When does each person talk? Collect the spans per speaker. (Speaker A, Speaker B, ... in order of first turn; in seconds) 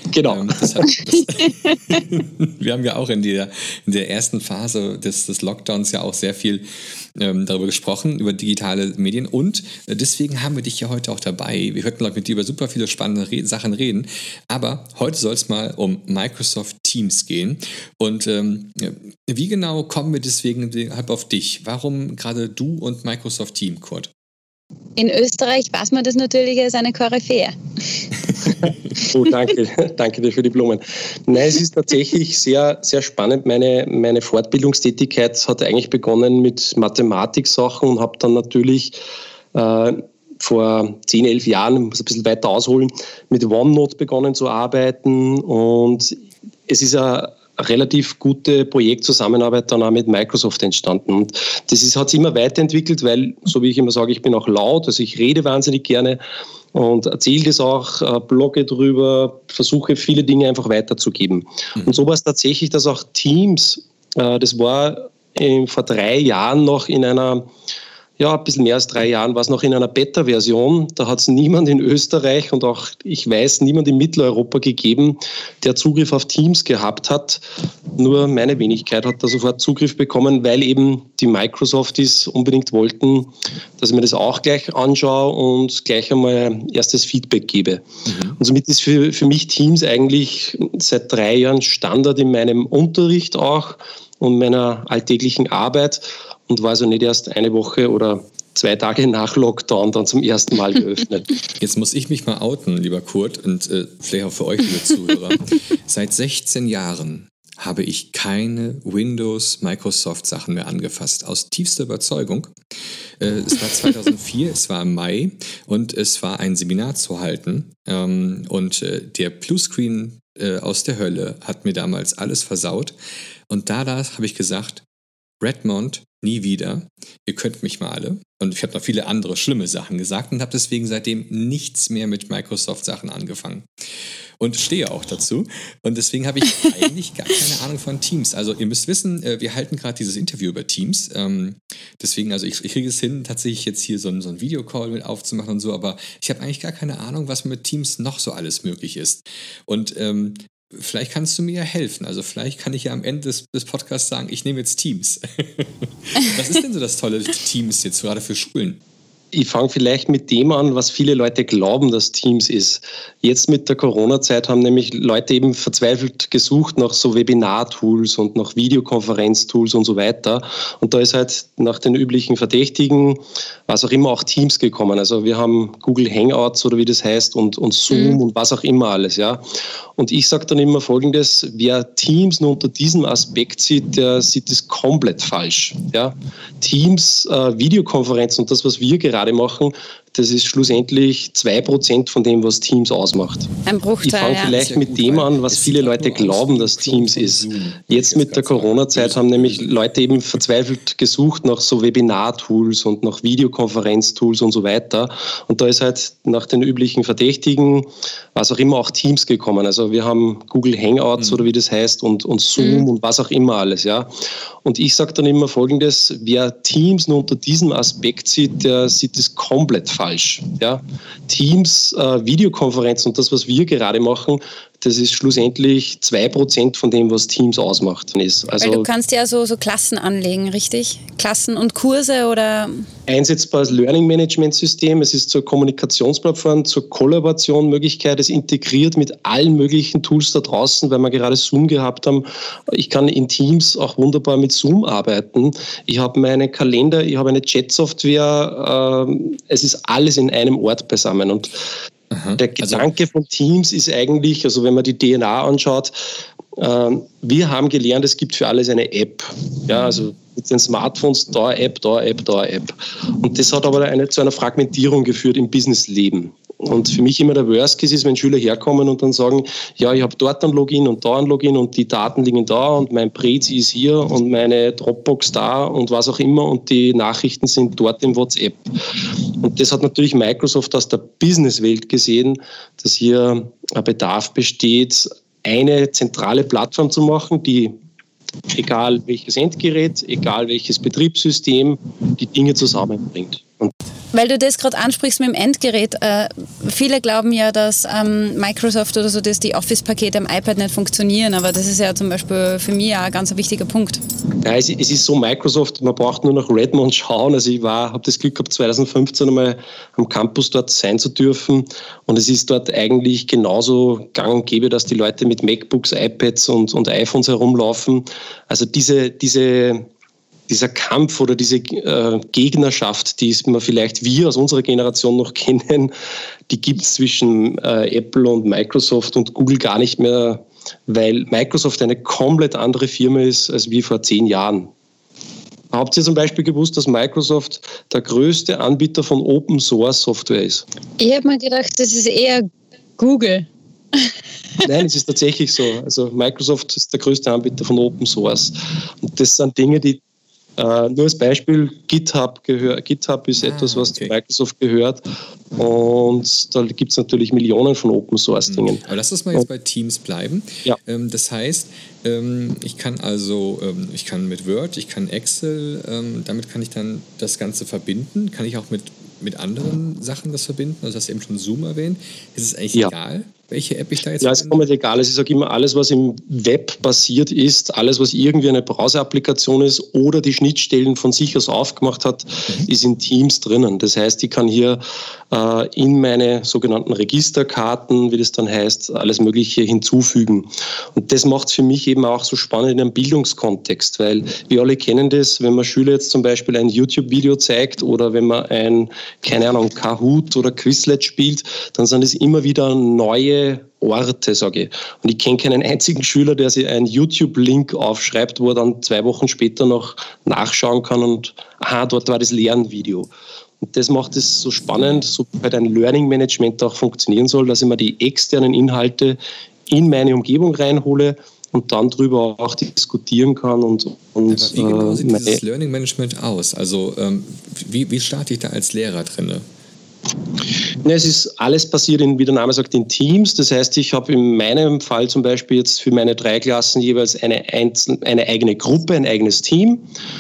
Speaker A: 0.1-0.7, 29.0-39.0, 39.5-56.2, 56.7-67.5, 68.2-77.4, 78.0-101.3, 159.3-179.4, 180.0-193.5, 194.0-214.1, 214.6-228.9, 233.1-251.7, 252.4-255.9, 256.6-287.8, 288.5-293.7, 304.4-319.9, 320.5-325.9, 326.5-334.7, 335.7-340.7, 344.6-350.0, 350.6-355.0, 355.6-358.8, 374.2-384.8, 385.3-413.1, 413.6-425.4, 430.8-439.9
Speaker B: 0.2-24.1, 88.1-88.4, 101.6-112.5, 113.2-123.0, 123.5-124.8, 125.4-133.7, 134.4-158.8, 194.4-199.8, 252.1-252.9, 353.4-354.1, 358.5-374.6, 424.3-429.4
Speaker C: 1.5-1.8, 25.0-27.6, 177.9-178.2, 193.7-194.5, 212.6-212.8, 228.6-232.9, 294.1-304.0, 341.0-344.1